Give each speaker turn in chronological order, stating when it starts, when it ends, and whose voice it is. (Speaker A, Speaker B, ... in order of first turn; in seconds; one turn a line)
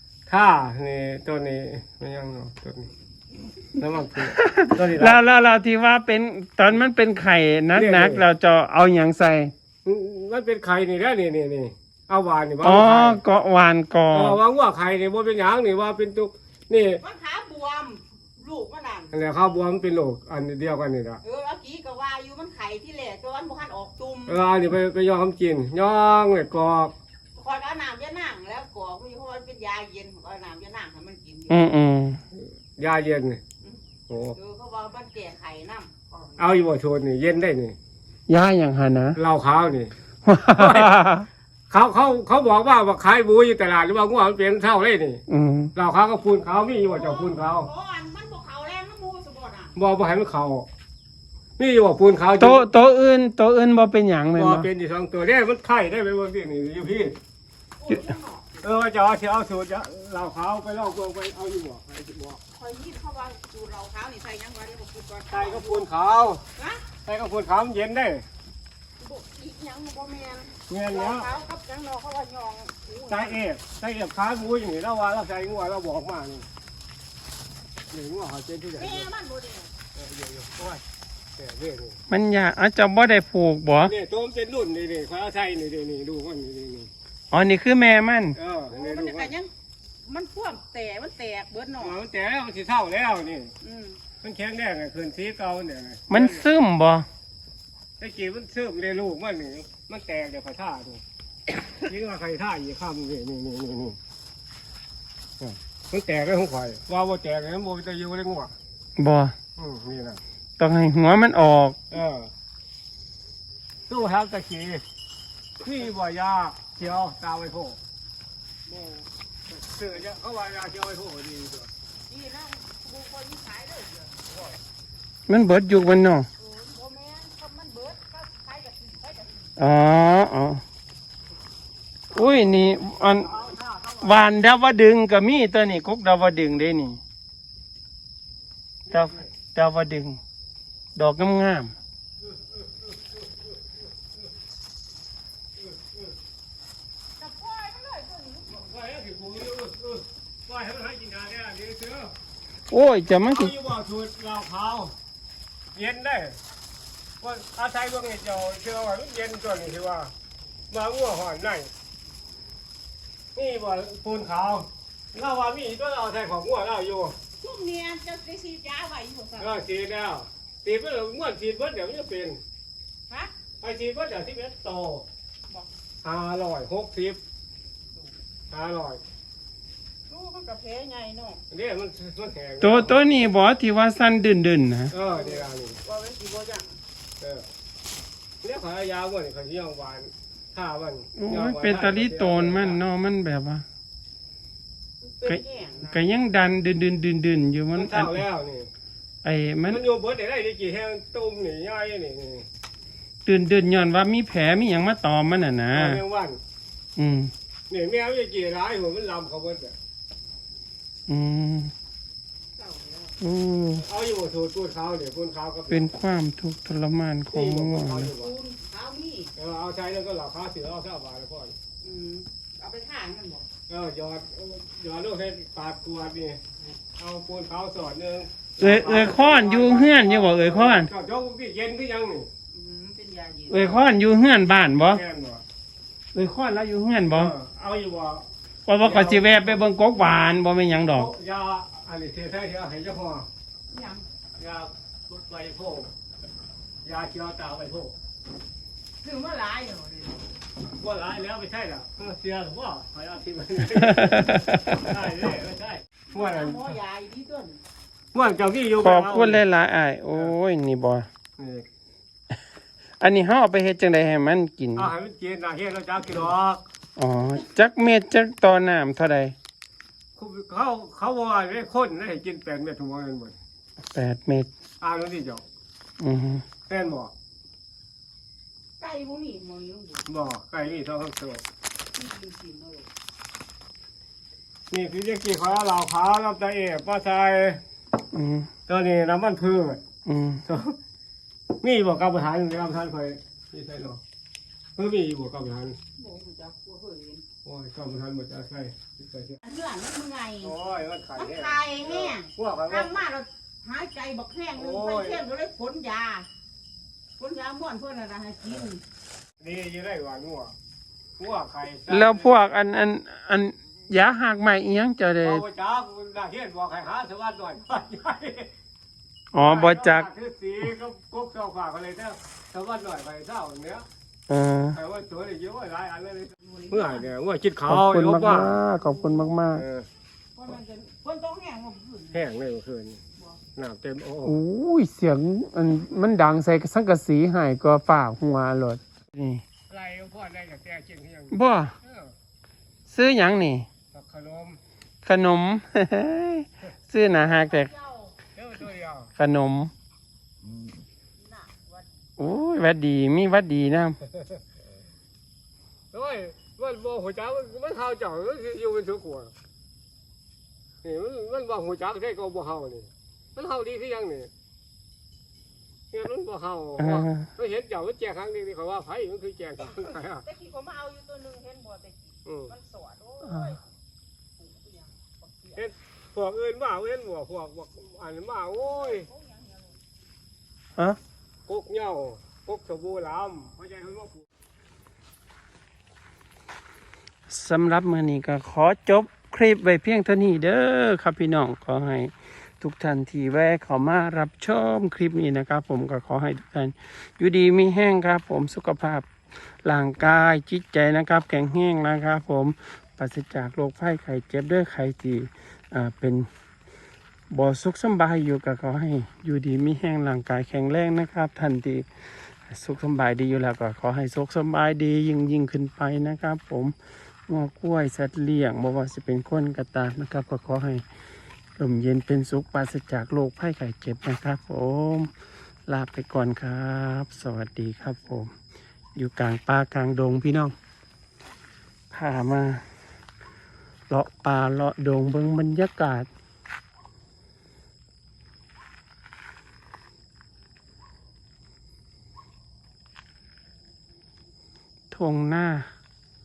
Speaker A: 0.3-2.9
Speaker A: 3.8-5.2
Speaker B: 4.4-9.5
Speaker A: 7.7-8.2
Speaker A: 9.8-13.2
Speaker B: 12.6-14.4
Speaker A: 14.1-17.0
Speaker C: 17.0-19.1
Speaker A: 19.1-21.2
Speaker C: 21.2-24.4
Speaker A: 24.3-26.9
Speaker C: 27.3-31.7
Speaker B: 31.5-32.2
Speaker A: 32.8-33.4
Speaker A: 34.1-34.3
Speaker C: 34.3-36.6
Speaker A: 36.4-37.8
Speaker B: 38.3-39.2
Speaker A: 39.1-39.9
Speaker B: 40.2-41.3
Speaker A: 40.5-40.9
Speaker A: 41.7-45.2
Speaker B: 45.3-45.7
Speaker A: 45.8-47.7
Speaker C: 46.8-49.8
Speaker A: 49.8-50.7
Speaker A: 51.6-52.7
Speaker B: 52.4-54.7
Speaker A: 54.3-57.2
Speaker C: 57.8-58.7
Speaker A: 58.6-62.4
Speaker C: 62.5-65.9
Speaker A: 65.3-66.4
Speaker C: 66.5-67.0
Speaker A: 67.0-68.3
Speaker C: 69.0-73.4
Speaker A: 70.7-71.3
Speaker A: 73.1-76.5
Speaker A: 77.9-79.1
Speaker C: 78.7-79.7
Speaker A: 80.0-80.8
Speaker A: 81.4-82.0
Speaker B: 82.1-83.9
Speaker A: 83.8-86.9
Speaker B: 87.3-88.4
Speaker C: 88.7-89.5
Speaker A: 88.7-89.3
Speaker C: 90.0-92.0
Speaker A: 91.8-93.5
Speaker C: 93.6-94.0
Speaker A: 94.2-96.4
Speaker B: 96.1-97.1
Speaker A: 98.0-101.0
Speaker A: 101.8-104.0
Speaker A: 105.4-108.5
Speaker B: 109.0-109.3
Speaker A: 109.5-110.2
Speaker B: 110.6-111.8
Speaker A: 112.0-112.3
Speaker A: 113.9-114.8
Speaker A: 115.6-117.8
Speaker A: 119.5-121.7
Speaker C: 122.1-124.5
Speaker B: 125.3-126.3
Speaker C: 126.4-129.5
Speaker B: 129.6-130.6
Speaker B: 132.1-133.4
Speaker C: 133.3-134.2
Speaker B: 134.0-137.0
Speaker B: 138.9-140.2
Speaker B: 140.9-141.7
Speaker A: 142.2-143.0
Speaker A: 145.6-146.1
Speaker C: 147.2-148.6
Speaker A: 148.5-152.1
Speaker B: 152.7-153.5
Speaker A: 153.2-154.9
Speaker A: 155.7-156.4
Speaker A: 157.2-160.1
Speaker A: 160.7-161.7
Speaker A: 163.3-167.2
Speaker C: 167.4-169.6
Speaker A: 169.4-172.4
Speaker C: 173.1-173.3
Speaker A: 173.6-175.1
Speaker A: 176.0-177.2
Speaker A: 178.5-179.0
Speaker C: 180.1-181.4
Speaker A: 181.5-183.0
Speaker B: 182.6-184.9
Speaker C: 184.9-186.8
Speaker A: 185.0-185.8
Speaker A: 187.2-187.5
Speaker A: 188.4-192.8
Speaker B: 191.2-193.6
Speaker C: 195.0-196.0
Speaker B: 195.2-198.2
Speaker A: 197.8-198.7
Speaker B: 199.2-199.8
Speaker A: 199.7-202.5
Speaker B: 203.2-206.0
Speaker A: 205.7-206.4
Speaker B: 207.0-207.3
Speaker A: 207.7-209.8
Speaker B: 211.1-211.7
Speaker C: 212.6-213.1
Speaker B: 213.2-213.8
Speaker A: 213.8-215.9
Speaker B: 215.7-218.1
Speaker A: 217.3-218.3
Speaker C: 217.9-219.3
Speaker A: 219.4-221.6
Speaker C: 221.8-223.5
Speaker A: 223.7-226.4
Speaker A: 226.9-232.3
Speaker B: 228.6-230.9
Speaker C: 232.5-233.8
Speaker B: 233.5-235.0
Speaker A: 234.9-235.4
Speaker B: 236.1-237.3
Speaker A: 237.1-238.3
Speaker B: 238.7-241.1
Speaker A: 238.8-239.6
Speaker A: 240.8-243.3
Speaker C: 243.7-244.0
Speaker A: 244.4-245.9
Speaker A: 246.8-247.9
Speaker C: 249.0-250.3
Speaker A: 250.7-256.8
Speaker B: 253.8-254.9
Speaker C: 256.1-257.6
Speaker A: 258.1-259.4
Speaker B: 258.8-261.1
Speaker A: 261.4-261.6
Speaker B: 263.0-264.9
Speaker A: 264.8-266.6
Speaker B: 267.0-269.4
Speaker A: 270.1-273.4
Speaker B: 273.9-274.5
Speaker A: 274.8-275.4
Speaker B: 276.0-276.4
Speaker A: 276.6-277.1
Speaker C: 278.8-280.1
Speaker A: 280.1-281.4
Speaker C: 281.9-282.9
Speaker A: 284.7-287.6
Speaker B: 288.1-288.5
Speaker A: 288.7-289.8
Speaker B: 290.1-290.4
Speaker A: 290.4-290.8
Speaker A: 291.6-294.0
Speaker A: 294.8-295.8
Speaker C: 295.9-297.2
Speaker A: 297.4-299.4
Speaker C: 299.4-300.6
Speaker A: 300.4-303.0
Speaker C: 301.1-306.3
Speaker A: 304.6-305.2
Speaker C: 307.2-308.8
Speaker A: 309.4-310.5
Speaker A: 311.2-312.3
Speaker B: 311.9-315.4
Speaker A: 315.2-318.5
Speaker B: 319.3-320.1
Speaker A: 319.4-323.9
Speaker B: 324.3-324.8
Speaker A: 324.7-328.6
Speaker C: 326.4-327.1
Speaker B: 327.6-329.6
Speaker C: 328.4-329.3
Speaker A: 329.5-329.9
Speaker C: 330.4-332.4
Speaker A: 332.1-333.0
Speaker A: 333.5-334.4
Speaker B: 334.2-339.4
Speaker A: 339.7-342.1
Speaker B: 341.3-341.7
Speaker B: 342.9-343.6
Speaker A: 343.9-344.6
Speaker B: 345.0-347.7
Speaker C: 347.2-348.2
Speaker A: 348.4-349.1
Speaker B: 349.2-349.7
Speaker C: 351.2-351.9
Speaker B: 352.2-354.0
Speaker A: 355.9-359.3
Speaker A: 360.8-364.3
Speaker A: 365.9-370.0
Speaker B: 366.8-367.3
Speaker C: 369.6-373.6
Speaker B: 373.2-373.6
Speaker C: 374.4-375.7
Speaker A: 375.6-379.0
Speaker C: 378.5-379.8
Speaker A: 381.4-384.2
Speaker B: 387.3-399.1
Speaker B: 399.6-406.3
Speaker B: 407.3-416.7
Speaker B: 417.3-420.8
Speaker B: 421.6-425.1
Speaker B: 425.7-428.3
Speaker B: 428.9-430.5
Speaker B: 431.9-432.6
Speaker B: 433.9-436.1
Speaker B: 444.9-445.7